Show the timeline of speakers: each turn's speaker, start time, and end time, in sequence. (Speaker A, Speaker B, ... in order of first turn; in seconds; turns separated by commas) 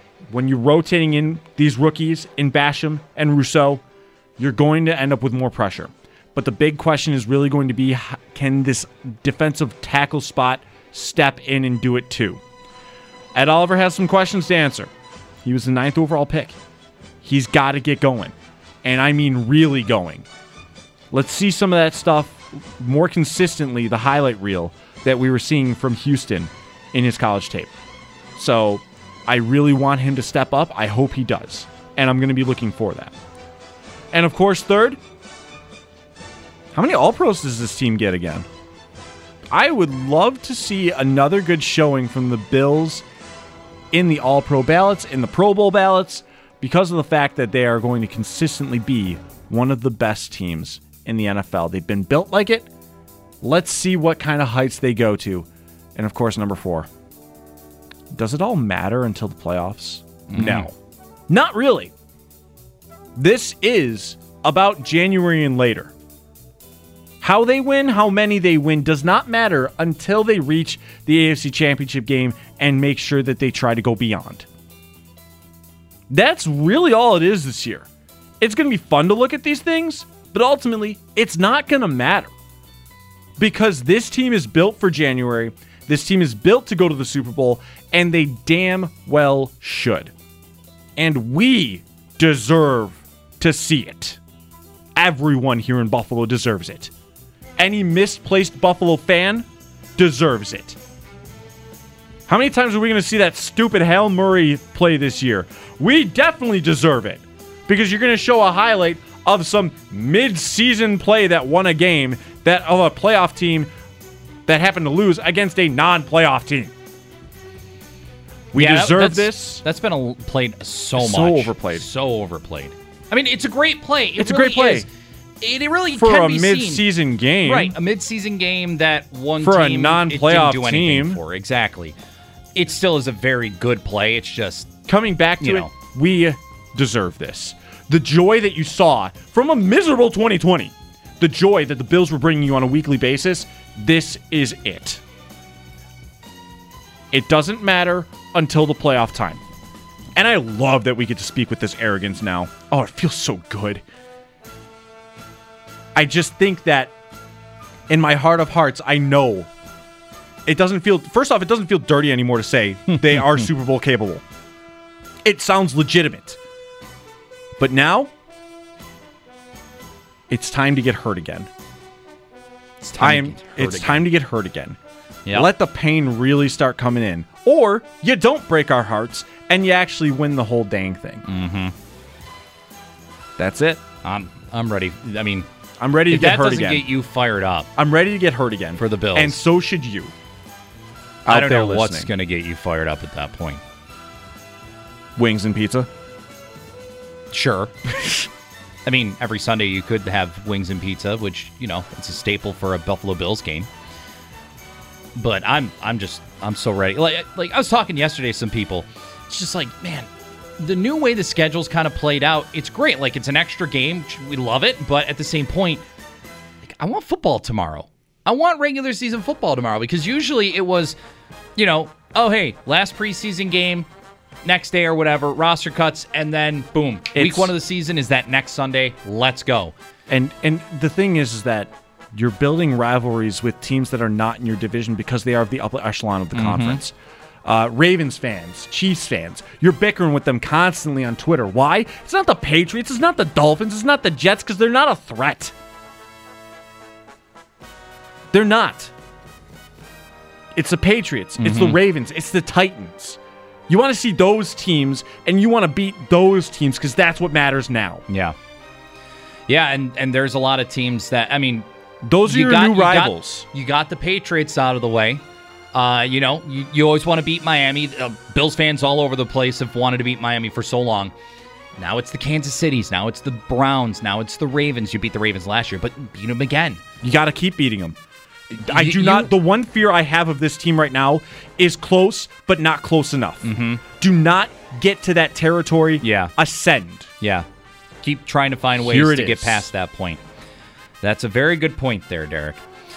Speaker A: 0.3-3.8, Speaker A: 4.4-12.4, Speaker A: 13.3-14.9, Speaker A: 15.4-16.6, Speaker A: 17.2-20.3, Speaker A: 21.1-27.8, Speaker A: 28.4-33.1, Speaker A: 34.1-35.0, Speaker A: 36.7-38.5, Speaker A: 39.5-43.0, Speaker A: 43.9-52.7, Speaker A: 53.4-56.9, Speaker A: 58.1-60.7, Speaker B: 60.3-60.7, Speaker A: 61.3-61.9, Speaker A: 63.2-65.9, Speaker A: 67.2-74.5, Speaker A: 76.1-77.9, Speaker A: 78.4-82.3, Speaker A: 83.4-90.1, Speaker A: 91.0-94.2, Speaker A: 95.0-96.9, Speaker A: 97.6-100.8, Speaker A: 102.3-113.7, Speaker A: 114.5-116.7, Speaker A: 118.5-119.6, Speaker B: 118.5-124.9, Speaker A: 121.0-121.9, Speaker A: 124.2-124.9, Speaker B: 125.4-126.8, Speaker A: 125.9-127.8, Speaker B: 127.5-132.0, Speaker A: 129.4-131.2, Speaker B: 132.6-134.7, Speaker A: 134.9-145.0, Speaker B: 135.4-135.7, Speaker A: 147.1-149.4, Speaker A: 150.2-153.8, Speaker A: 155.9-156.9, Speaker A: 157.9-159.5, Speaker A: 160.5-164.2, Speaker A: 165.2-166.4, Speaker A: 167.6-168.1, Speaker A: 170.3-171.5, Speaker B: 172.8-174.1, Speaker A: 173.0-174.8, Speaker A: 175.3-181.2, Speaker B: 181.3-181.8, Speaker A: 183.4-183.8, Speaker B: 184.0-185.5, Speaker A: 185.8-186.9, Speaker B: 186.1-187.7, Speaker A: 187.8-190.1, Speaker B: 188.8-189.4, Speaker A: 191.2-192.1, Speaker B: 191.3-193.6, Speaker A: 195.2-195.9, Speaker B: 197.3-197.7, Speaker B: 198.9-203.7, Speaker B: 205.2-215.8, Speaker B: 216.6-221.0, Speaker B: 221.6-223.9, Speaker B: 224.4-229.8, Speaker A: 227.1-227.5, Speaker A: 230.1-245.5, Speaker B: 236.3-236.8, Speaker A: 248.3-248.9, Speaker A: 250.6-258.0, Speaker B: 251.4-251.8, Speaker B: 258.1-258.4, Speaker B: 259.5-261.7, Speaker A: 262.0-263.5, Speaker B: 262.2-265.2, Speaker B: 265.7-271.1, Speaker B: 271.8-276.8, Speaker A: 277.0-278.0, Speaker A: 278.5-287.1, Speaker B: 278.6-279.3, Speaker B: 283.4-283.8, Speaker B: 286.0-286.3, Speaker B: 287.2-287.5, Speaker B: 288.0-290.2, Speaker A: 288.8-289.7, Speaker B: 291.0-292.6